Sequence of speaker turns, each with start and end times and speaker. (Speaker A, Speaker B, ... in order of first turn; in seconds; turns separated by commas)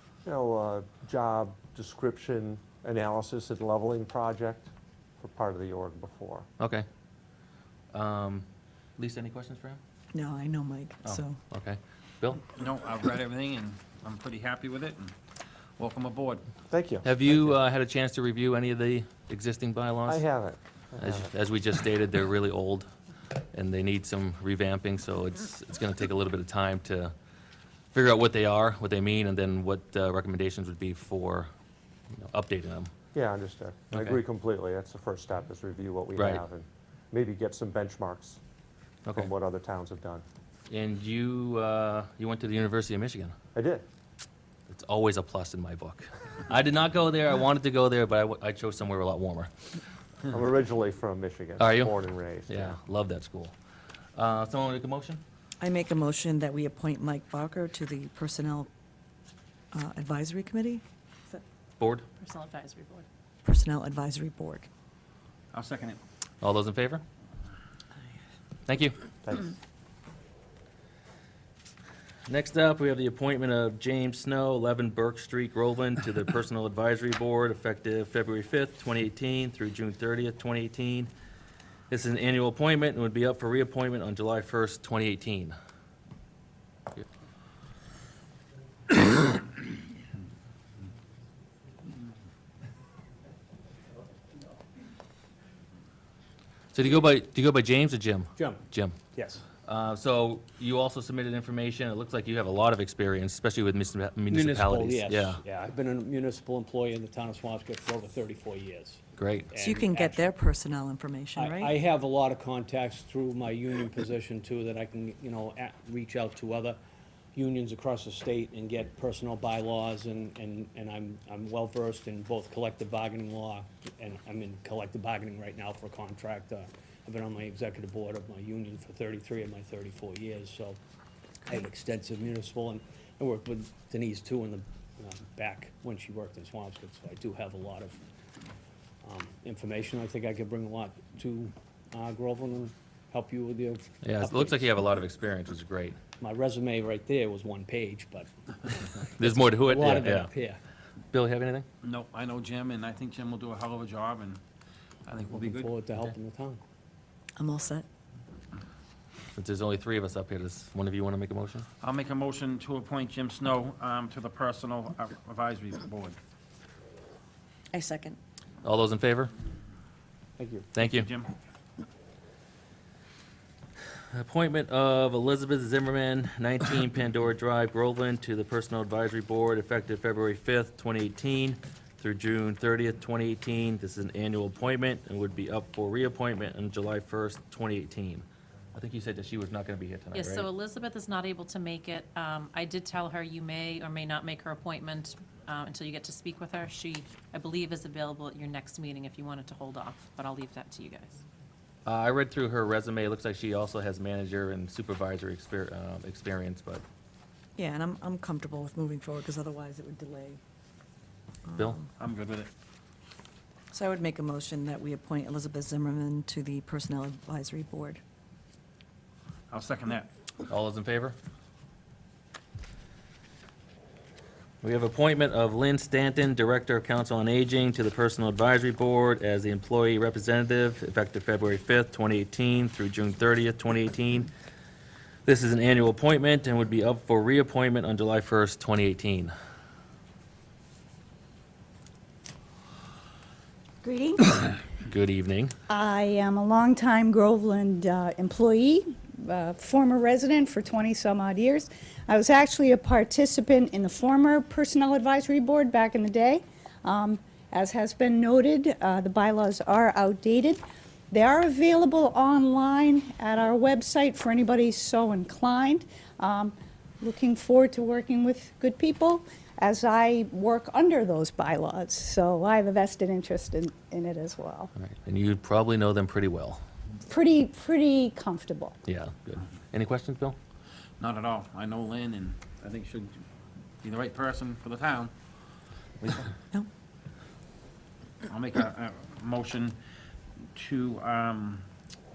Speaker A: 0.2-6.5, Speaker B: 6.6-6.9, Speaker B: 7.9-8.5, Speaker B: 9.0-9.8, Speaker C: 10.1-11.4, Speaker B: 11.0-12.4, Speaker D: 12.6-15.2, Speaker D: 15.8-16.4, Speaker A: 16.7-17.1, Speaker B: 17.0-20.2, Speaker A: 20.1-21.3, Speaker B: 21.0-22.9, Speaker B: 23.5-27.1, Speaker B: 27.9-31.5, Speaker B: 32.2-32.9, Speaker A: 33.1-38.4, Speaker B: 36.2-36.4, Speaker A: 39.1-40.2, Speaker B: 40.7-43.3, Speaker A: 43.5-43.8, Speaker B: 44.7-49.5, Speaker A: 50.3-52.8, Speaker B: 51.6-51.9, Speaker B: 52.5-53.5, Speaker B: 54.2-55.2, Speaker C: 55.6-58.7, Speaker C: 59.7-61.4, Speaker B: 61.8-62.0, Speaker E: 62.2-63.0, Speaker C: 63.4-64.7, Speaker D: 65.5-66.0, Speaker B: 66.4-67.0, Speaker B: 68.7-68.9, Speaker A: 69.2-69.5, Speaker B: 72.3-81.1, Speaker B: 81.9-85.5, Speaker B: 96.7-99.0, Speaker F: 98.4-99.4, Speaker B: 99.7-105.4, Speaker F: 104.3-110.3, Speaker B: 109.2-109.5, Speaker C: 109.6-111.7, Speaker F: 111.4-116.8, Speaker F: 117.3-130.8, Speaker F: 131.5-138.0, Speaker F: 139.0-144.7, Speaker B: 144.0-146.0, Speaker F: 146.2-150.6, Speaker B: 149.2-150.3, Speaker B: 151.1-151.7, Speaker D: 151.8-154.4, Speaker D: 155.1-155.8, Speaker F: 155.3-156.6, Speaker C: 157.4-157.9, Speaker B: 159.4-161.7, Speaker D: 161.8-166.2, Speaker C: 167.7-168.2, Speaker B: 168.6-169.3, Speaker F: 170.4-170.7, Speaker B: 170.7-171.1, Speaker D: 170.8-171.3, Speaker B: 174.1-190.5, Speaker E: 190.1-201.2, Speaker B: 201.9-206.8, Speaker C: 207.6-210.4, Speaker C: 211.5-211.9, Speaker D: 212.0-212.5, Speaker C: 213.7-218.0, Speaker D: 219.5-220.1, Speaker B: 220.5-221.2, Speaker B: 224.6-234.3, Speaker B: 235.2-239.3, Speaker G: 243.8-244.3, Speaker B: 244.9-245.5, Speaker G: 245.7-274.7, Speaker B: 274.8-276.6, Speaker G: 277.1-278.8, Speaker B: 278.9-280.4, Speaker D: 281.0-283.2, Speaker D: 283.8-285.1, Speaker D: 286.0-286.3, Speaker D: 288.3-289.8, Speaker D: 290.6-291.6